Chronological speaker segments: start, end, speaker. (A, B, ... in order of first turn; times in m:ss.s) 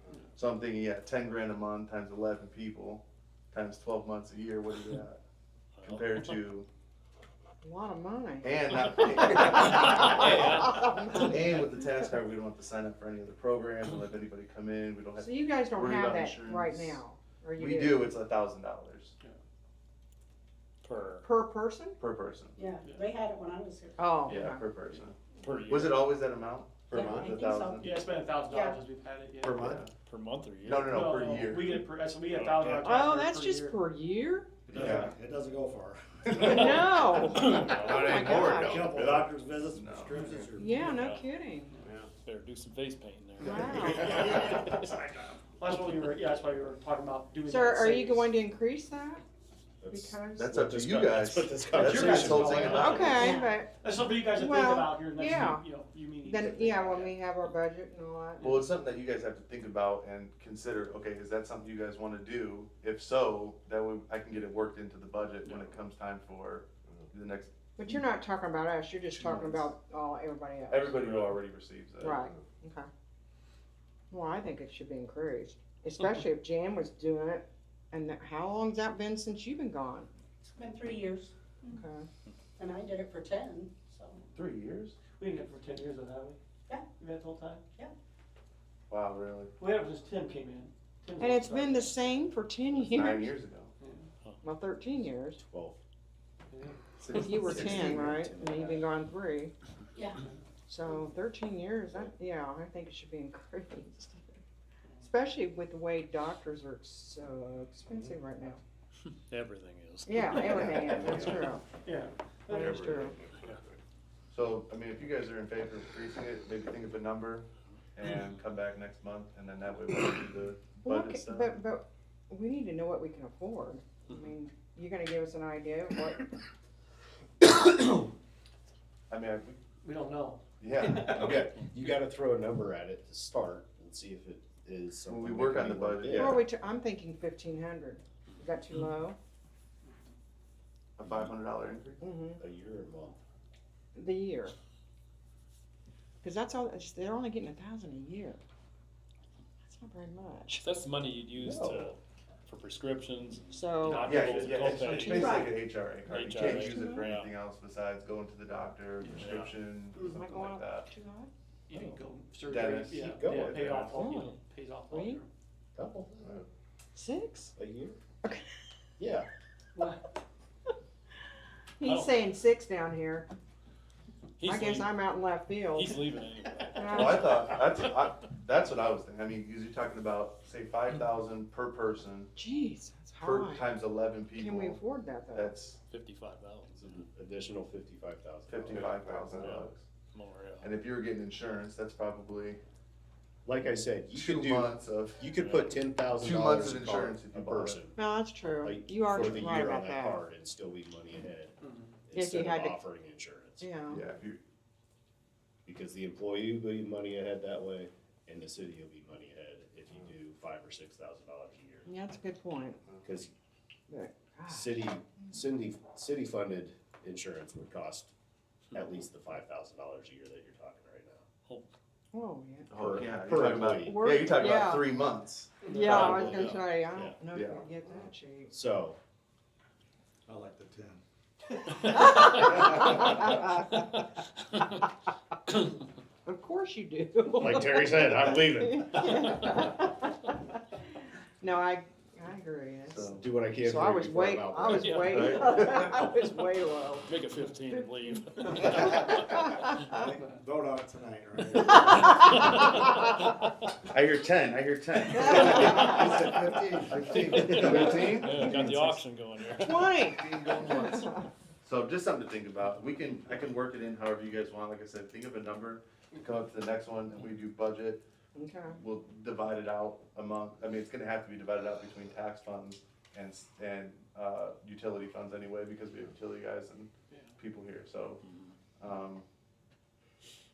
0:00.4-0:05.2 A
0:05.8-0:06.4 B
0:05.8-0:06.7 A
0:07.6-0:11.7 C
0:08.4-0:17.0 A
0:10.1-0:11.2 B
0:15.2-0:18.2 C
0:17.6-0:19.2 A
0:20.8-0:21.2 B
0:21.2-0:22.0 C
0:22.0-0:22.6 A
0:22.6-0:24.1 D
0:22.8-0:23.1 E
0:24.0-0:24.7 C
0:24.3-0:27.9 A
0:25.4-0:26.1 B
0:26.9-0:27.2 F
0:26.9-0:27.8 D
0:27.8-0:29.8 E
0:28.5-0:28.8 D
0:29.4-0:29.8 F
0:29.4-0:29.9 A
0:30.0-0:31.1 B
0:30.6-0:31.7 A
0:30.9-0:33.8 E
0:32.3-0:32.9 B
0:32.8-0:34.5 C
0:34.7-0:40.9 F
0:34.7-0:35.2 A
0:36.3-0:39.0 C
0:37.4-0:38.1 B
0:37.9-0:40.5 A
0:40.5-0:41.8 C
0:40.8-0:41.3 B
0:42.2-0:44.9 B
0:43.4-0:44.2 C
0:43.6-0:45.2 F
0:45.6-0:48.3 E
0:47.5-0:49.2 C
0:49.8-0:53.0 G
0:49.9-0:50.6 C
0:50.4-0:53.2 A
0:51.7-0:57.2 E
0:52.7-0:53.8 C
0:53.2-0:53.6 D
0:54.3-0:55.6 C
0:56.2-0:58.6 C
0:58.4-0:58.7 E
0:58.4-1:07.5 A
1:07.8-1:11.0 C
1:09.3-1:09.6 A
1:10.7-1:12.2 A
1:11.0-1:11.4 B
1:12.0-1:12.9 C
1:14.1-1:20.1 C
1:20.4-1:21.8 D
1:21.7-1:22.1 C
1:22.6-1:24.3 D
1:24.4-1:25.0 A
1:25.1-1:26.4 E
1:26.9-1:27.6 E
1:28.9-1:29.5 A
1:29.6-1:32.2 E
1:31.2-1:33.4 C
1:32.8-1:33.7 A
1:33.8-1:34.1 E
1:34.4-1:35.4 C
1:35.4-1:35.8 G
1:36.5-1:36.8 E
1:37.0-1:38.0 A
1:37.1-1:39.5 C
1:37.2-1:38.9 G
1:40.7-1:44.4 C
1:45.0-1:48.6 C
1:49.1-1:51.0 B
1:50.0-1:51.6 C
1:50.4-1:51.5 A
1:51.8-1:53.1 E
1:52.5-1:53.2 C
1:52.5-1:53.2 A
1:54.3-2:01.6 A
2:00.8-2:06.3 C
2:09.1-2:09.6 A
2:09.8-2:10.4 E
2:10.6-2:11.4 A
2:10.9-2:16.5 G
2:11.0-2:11.3 E
2:15.1-2:16.4 A
2:16.1-2:19.2 C
2:21.0-2:22.0 A
2:22.0-2:22.4 C
2:22.4-2:23.2 G
2:24.0-2:24.5 C
2:26.2-2:28.4 C
2:29.6-2:30.6 C
2:30.6-2:35.5 B
2:31.4-2:31.9 G
2:33.5-2:34.1 C
2:33.8-2:35.1 E
2:34.0-2:40.9 A
2:35.1-2:35.5 D
2:36.0-2:37.3 B
2:36.4-2:37.1 C
2:39.2-2:39.5 B
2:40.0-2:41.3 C
2:41.7-2:45.3 E
2:41.7-2:42.0 G
2:42.4-2:43.9 A
2:42.9-2:43.6 G
2:43.2-2:43.5 B
2:44.0-2:44.4 C
2:44.9-2:45.2 C
2:45.8-2:46.4 G
2:47.0-2:47.5 C
2:47.6-2:48.0 G
2:49.0-2:49.3 G
2:51.8-2:53.3 C
2:51.8-2:52.1 E
2:54.4-2:55.0 B
2:54.4-2:56.0 C
2:55.7-2:57.5 B
2:56.8-2:57.5 C
2:56.8-3:02.3 A
3:02.4-3:03.7 C
3:03.2-3:04.8 A
3:04.4-3:05.6 C
3:05.3-3:05.8 A
3:05.9-3:07.0 B
3:06.8-3:09.7 G
3:08.5-3:09.8 A
3:09.3-3:10.7 B
3:10.6-3:12.6 A
3:13.4-3:23.8 G
3:14.1-3:15.2 A
3:15.3-3:15.8 B
3:16.1-3:17.8 A
3:17.9-3:20.2 C
3:19.1-3:19.8 A
3:21.6-3:21.9 E
3:22.1-3:22.8 C
3:23.6-3:24.0 C
3:23.9-3:24.4 A
3:25.7-3:31.9 G
3:31.9-3:32.8 C
3:33.0-3:33.3 G
3:33.9-3:34.8 C
3:34.5-3:38.1 G
3:38.7-3:41.2 G
3:41.4-3:41.7 B
3:42.1-3:42.7 C
3:42.7-3:44.1 G
3:42.7-3:46.4 A
3:43.6-3:45.0 C
3:45.6-3:48.5 C
3:45.8-3:46.6 B
3:46.9-3:47.2 G
3:47.3-3:47.6 A
3:48.5-3:49.0 G
3:50.3-3:51.0 F
3:51.8-3:53.8 C
3:52.7-3:53.0 F
3:56.2-4:00.6 C
3:57.4-3:59.2 G
4:01.4-4:07.1 C
4:02.9-4:03.2 A
4:03.1-4:05.3 G
4:04.7-4:05.6 B
4:05.0-4:06.0 A
4:07.1-4:09.9 B
4:07.7-4:08.2 C
4:08.9-4:09.6 C
4:09.9-4:12.6 F
4:11.9-4:12.8 C
4:12.0-4:13.0 B
4:13.9-4:18.8 A
4:15.2-4:15.9 C
4:15.8-4:18.1 F
4:17.6-4:20.0 B
4:18.4-4:18.8 C
4:19.6-4:21.2 C
4:20.0-4:28.0 A
4:28.4-4:28.8 C
4:28.8-4:38.2 A
4:38.2-4:38.6 B
4:38.8-4:39.2 A